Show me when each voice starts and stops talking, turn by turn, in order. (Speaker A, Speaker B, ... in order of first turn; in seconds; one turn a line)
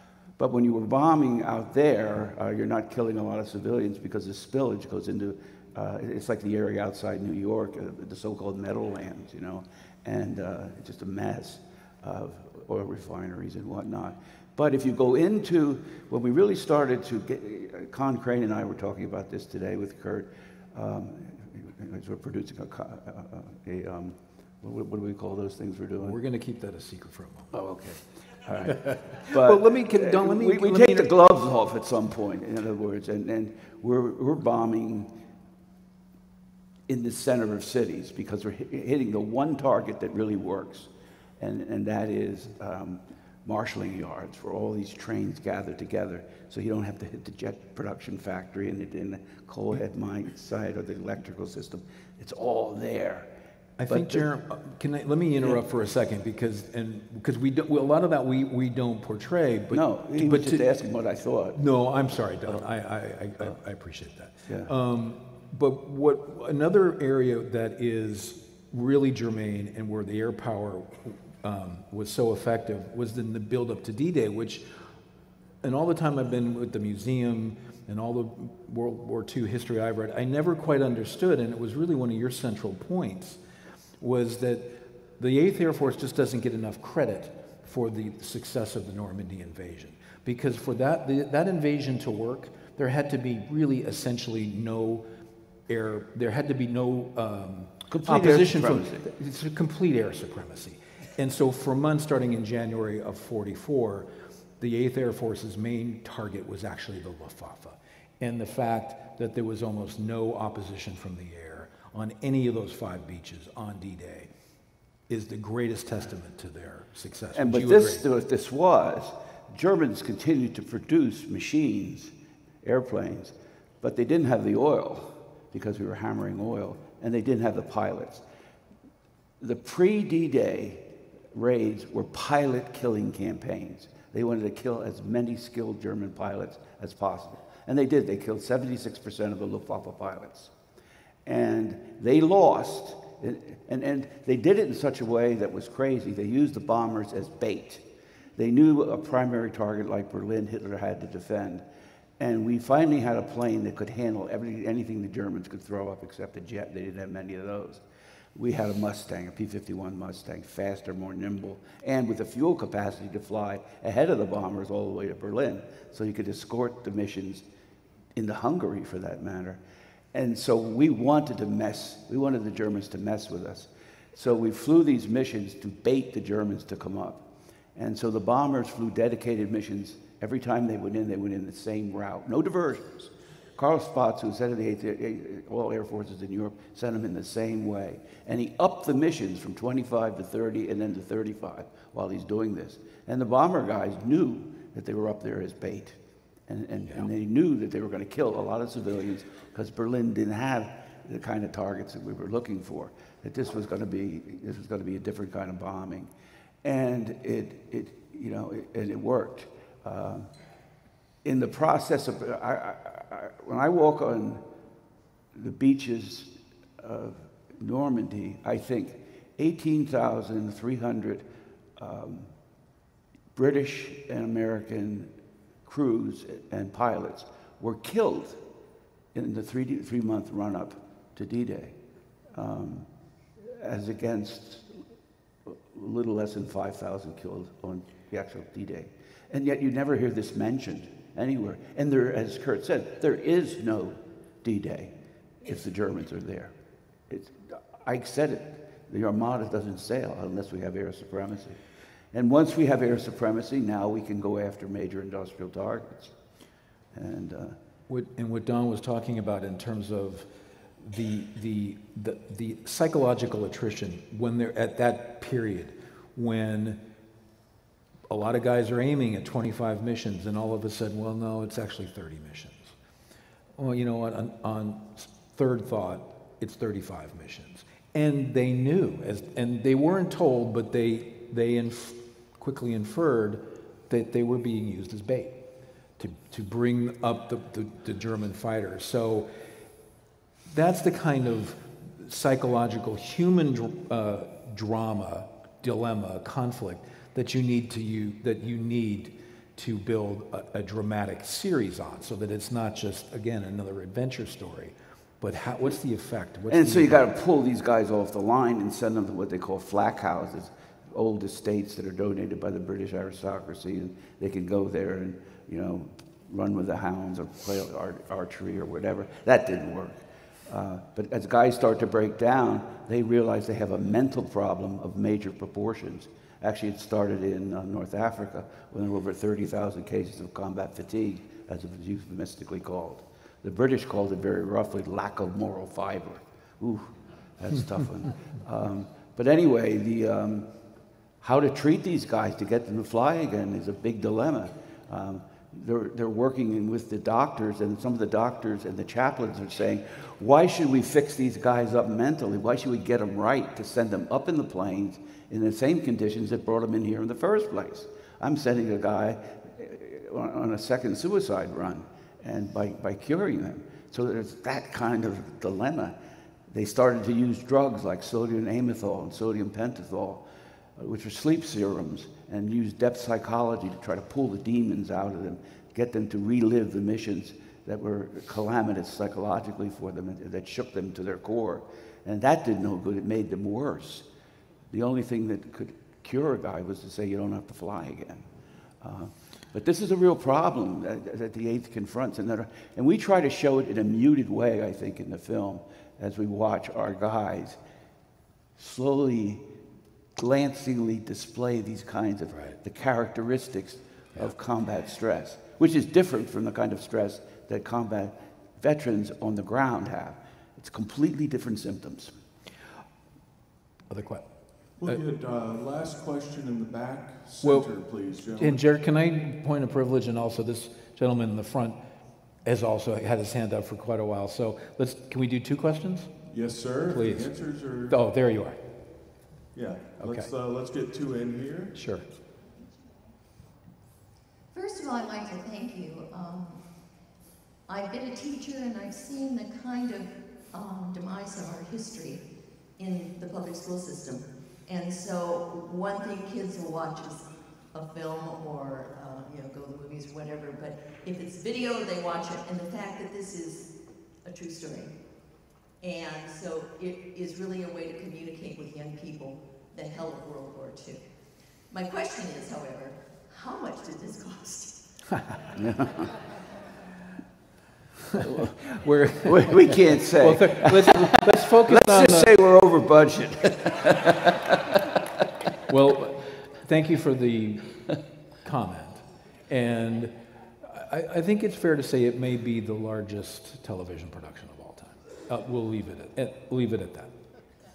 Speaker A: 0.4-26.2
Speaker B: 26.0-27.5
Speaker A: 27.5-35.1
Speaker B: 28.7-31.2
Speaker A: 36.9-53.3
Speaker B: 53.8-60.7
Speaker A: 53.9-54.3
Speaker A: 59.7-61.6
Speaker B: 61.5-74.7
Speaker B: 75.6-83.4
Speaker B: 84.0-95.1
Speaker B: 95.7-104.1
Speaker A: 97.9-99.1
Speaker B: 104.6-114.3
Speaker B: 115.1-118.0
Speaker A: 117.3-128.2
Speaker A: 129.4-140.5
Speaker A: 141.2-151.7
Speaker A: 152.2-157.8
Speaker A: 158.3-167.4
Speaker A: 168.2-169.6
Speaker A: 170.1-177.2
Speaker A: 177.8-206.1
Speaker A: 206.6-210.3
Speaker A: 211.2-214.4
Speaker A: 215.3-221.3
Speaker A: 221.8-222.3
Speaker A: 223.3-225.1
Speaker A: 225.7-228.4
Speaker A: 229.1-231.8
Speaker A: 232.3-234.8
Speaker A: 235.4-246.5
Speaker A: 247.1-251.6
Speaker A: 252.1-256.1
Speaker A: 256.9-257.6
Speaker B: 257.9-260.3
Speaker B: 260.8-266.8
Speaker B: 268.1-272.7
Speaker B: 273.6-285.4
Speaker B: 286.0-289.3
Speaker B: 290.5-307.1
Speaker A: 306.5-340.5
Speaker A: 341.2-366.0
Speaker A: 366.5-370.2
Speaker A: 370.8-384.1
Speaker A: 384.7-388.3
Speaker A: 388.8-397.6
Speaker A: 398.6-399.4
Speaker A: 400.2-412.1
Speaker B: 413.9-414.3
Speaker C: 414.8-418.6
Speaker B: 417.4-417.7
Speaker B: 418.3-421.8
Speaker B: 422.4-428.6
Speaker C: 426.3-428.0
Speaker C: 429.5-431.8
Speaker B: 430.0-430.3
Speaker B: 431.7-432.1
Speaker D: 434.5-437.1
Speaker D: 437.7-442.2
Speaker D: 442.8-453.7
Speaker D: 454.2-454.9
Speaker D: 455.8-461.0
Speaker D: 461.7-464.9
Speaker A: 465.6-466.2
Speaker A: 468.2-468.6
Speaker B: 468.2-472.3
Speaker A: 469.2-474.6
Speaker B: 475.7-487.1